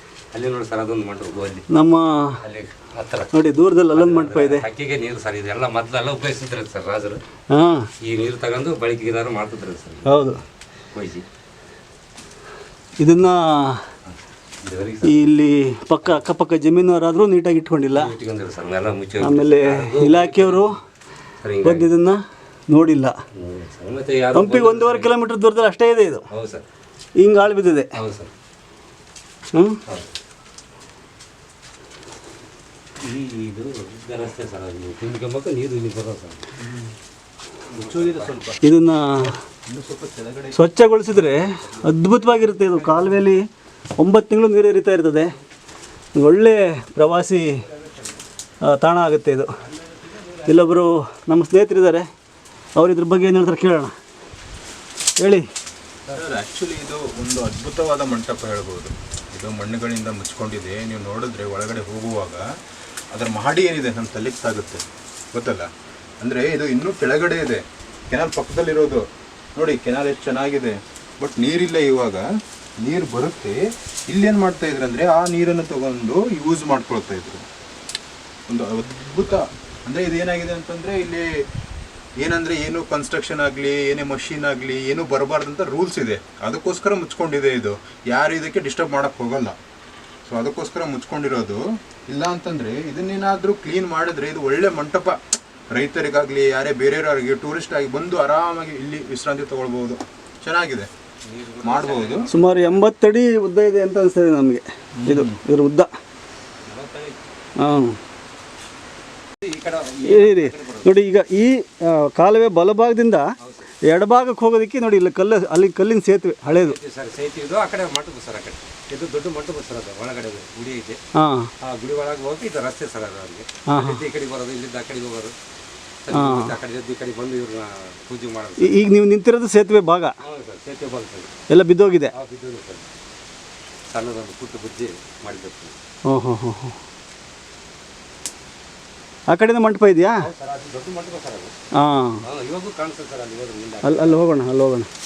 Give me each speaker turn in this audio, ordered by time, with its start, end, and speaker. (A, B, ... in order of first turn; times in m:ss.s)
0:00.3-0:01.7 A
0:01.7-0:02.4 B
0:02.4-0:03.3 A
0:03.3-0:04.7 B
0:03.9-0:07.2 A
0:07.5-0:07.9 B
0:08.0-0:10.2 A
0:10.0-0:10.4 B
0:10.9-0:11.2 A
0:13.0-0:13.8 B
0:14.6-0:15.2 A
0:15.0-0:18.1 B
0:17.9-0:20.7 A
0:19.2-0:20.8 B
0:21.4-0:21.9 A
0:21.6-0:23.2 B
0:23.4-0:25.1 A
0:24.3-0:26.2 B
0:26.3-0:26.6 A
0:27.2-0:27.9 B
0:28.0-0:28.3 A
0:29.5-0:29.8 B
0:33.0-0:36.4 A
0:37.7-0:38.4 A
0:37.8-0:38.6 C
0:38.6-0:39.3 B
0:39.7-0:40.6 C
0:40.5-0:43.4 B
0:41.6-0:41.9 A
0:44.0-0:45.3 B
0:46.1-0:47.6 B
0:48.6-0:49.5 B
0:50.0-0:50.5 A
0:50.4-0:52.1 B
0:52.8-0:53.9 B
0:55.2-0:55.5 B
0:56.1-1:02.4 C
1:03.1-1:09.0 C
1:09.6-1:12.3 C
1:12.8-1:17.5 C
1:18.5-1:21.3 C
1:22.2-1:29.6 C
1:30.3-1:35.2 C
1:35.7-1:40.9 C
1:41.3-1:42.4 A
1:41.6-1:42.3 C
1:42.3-1:45.9 B
1:45.0-1:45.4 C
1:46.6-1:47.2 A
1:47.6-1:48.0 B
1:49.4-1:50.9 A
1:50.0-1:53.3 B
1:53.4-1:53.7 A
1:53.8-1:56.8 B
1:56.6-2:01.0 A
2:01.2-2:01.5 B
2:01.6-2:05.4 A
2:03.7-2:04.0 B
2:06.1-2:08.9 A
2:06.1-2:06.6 B
2:08.6-2:10.2 B
2:10.2-2:11.3 A
2:11.5-2:12.1 B
2:12.1-2:12.9 A
2:13.9-2:15.8 A
2:16.1-2:16.8 B
2:19.3-2:20.3 B
2:20.2-2:21.5 A
2:21.8-2:22.2 B
2:22.2-2:24.2 A
2:23.8-2:24.9 B